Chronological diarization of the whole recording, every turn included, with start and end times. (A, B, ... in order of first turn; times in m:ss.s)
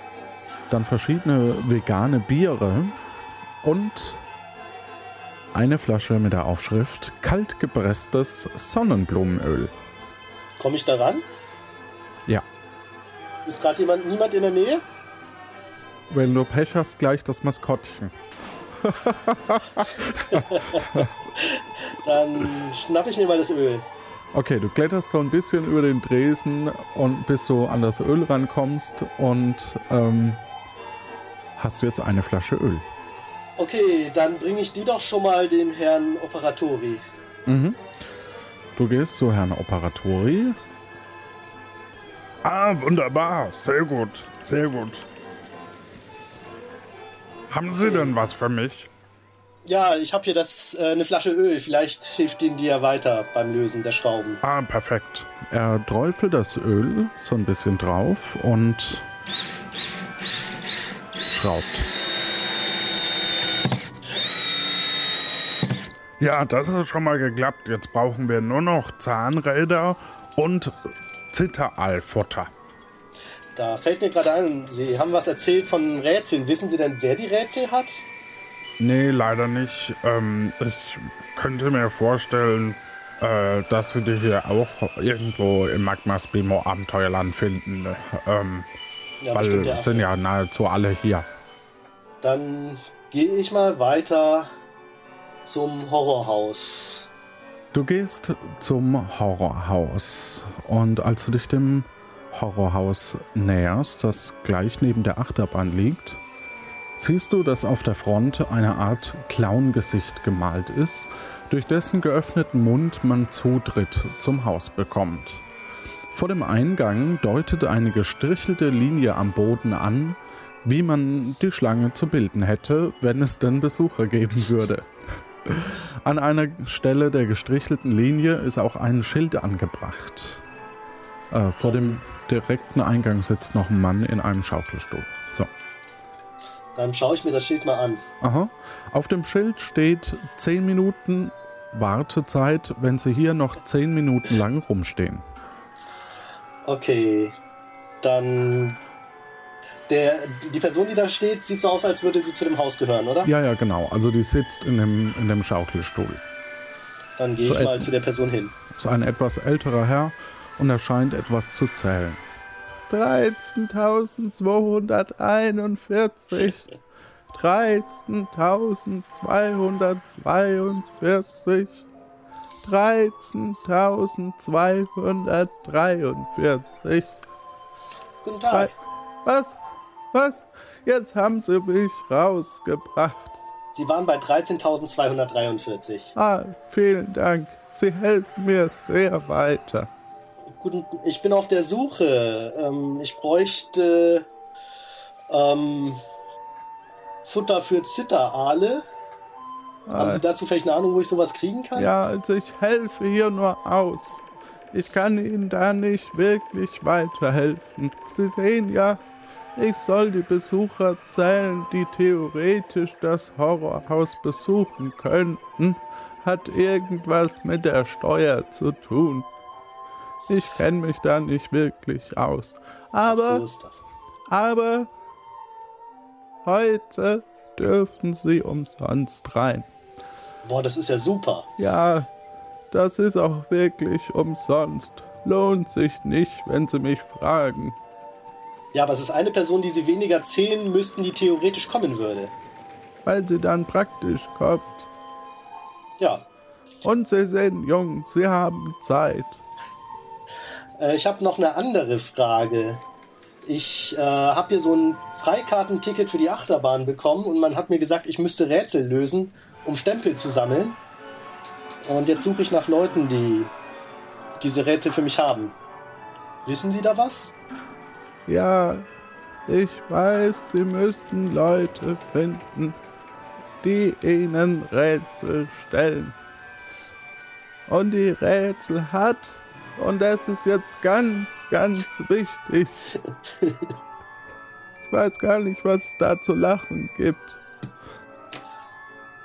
0:00.7-0:03.0 A
0:03.6-0:04.2 A
0:05.5-0:09.7 A
0:10.6-0:11.2 B
0:13.4-0:14.8 B
0:16.1-0:18.1 A
0:18.8-0:20.4 A
0:20.3-0:23.8 B
0:24.3-0:30.4 A
0:31.6-0:32.8 A
0:33.6-0:37.0 B
0:37.4-0:37.8 A
0:38.8-0:40.6 A
0:42.4-0:45.0 C
0:47.5-0:48.9 C
0:47.8-0:48.2 B
0:49.6-0:54.4 B
0:54.4-0:54.9 C
0:54.8-0:59.0 A
1:01.3-1:01.9 A
1:06.2-1:10.8 C
1:11.3-1:12.5 C
1:13.5-1:18.0 B
1:18.8-1:28.7 C
1:29.2-1:30.1 B
1:29.3-1:31.2 C
1:32.2-1:34.5 B
1:35.4-1:37.1 B
1:37.7-1:46.2 A
1:47.0-1:55.4 A
1:56.1-2:10.4 A
2:11.3-2:15.5 A
2:11.6-2:12.0 B
2:16.7-2:18.0 B
2:18.2-2:25.2 A
2:26.6-2:27.4 B
2:28.0-2:28.8 B
2:29.9-2:33.3 B
2:33.2-2:36.2 A
2:37.2-2:38.5 B
2:37.4-2:37.9 A
2:38.7-2:42.2 A
2:42.9-2:46.7 A
2:47.3-2:51.8 A
2:52.6-2:57.1 A
2:58.2-2:58.7 B
2:59.2-2:59.6 A
3:00.1-3:03.4 A
3:03.7-3:06.1 B
3:06.2-3:09.9 A
3:10.6-3:14.2 B
3:15.3-3:16.0 B
3:17.2-3:18.8 B
3:19.9-3:20.2 A
3:20.0-3:21.9 B
3:21.8-3:29.0 A
3:29.6-3:39.3 A
3:40.3-3:43.4 A
3:43.1-3:43.8 B
3:44.3-3:44.9 A
3:46.4-3:49.7 A
3:50.4-3:51.5 B
3:51.6-3:52.1 A
3:52.7-3:57.8 A
3:58.7-4:02.3 B
4:03.0-4:04.8 A
4:06.0-4:06.2 B
4:06.8-4:09.4 A
4:10.8-4:12.8 B
4:13.4-4:20.8 B
4:21.8-4:23.5 B
4:24.4-4:25.5 B
4:26.4-4:27.3 B
4:28.3-4:28.8 A
4:29.5-4:32.8 A
4:33.6-4:36.2 A
4:37.7-4:42.8 A
4:43.4-4:43.7 B
4:44.9-4:47.4 A